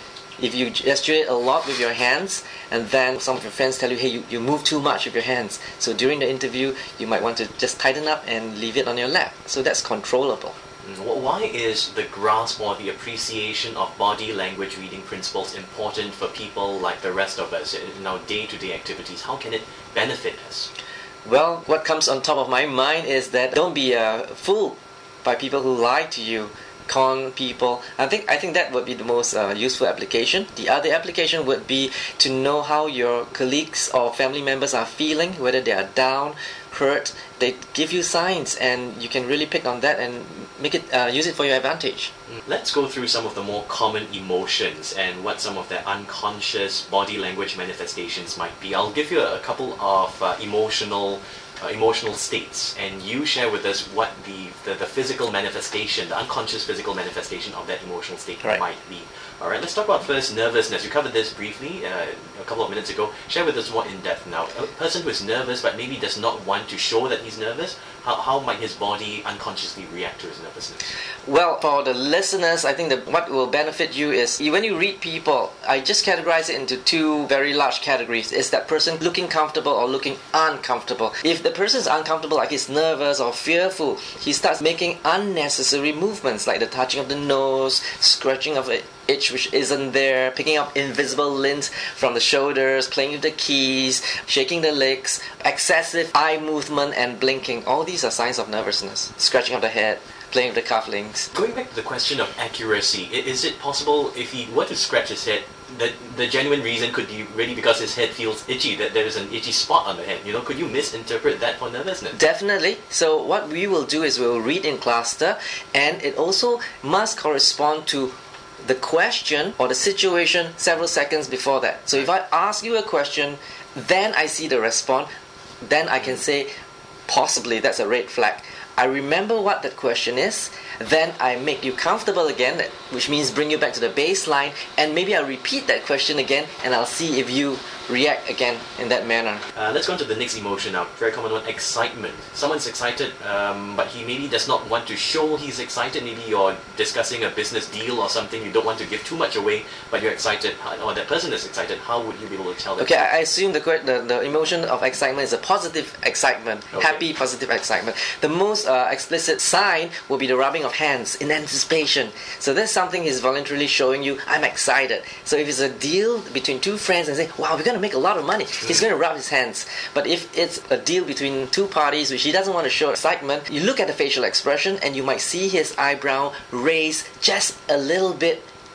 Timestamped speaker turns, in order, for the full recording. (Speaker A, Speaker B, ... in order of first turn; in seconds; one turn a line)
Speaker A: 0.4-10.6
Speaker B: 10.8-20.7
Speaker A: 21.2-42.1
Speaker B: 42.5-70.9
Speaker A: 71.2-101.3
Speaker B: 101.3-112.2
Speaker A: 112.1-125.1
Speaker A: 125.6-126.5
Speaker A: 127.1-139.4
Speaker B: 139.6-153.1
Speaker A: 152.8-178.5
Speaker B: 156.7-157.0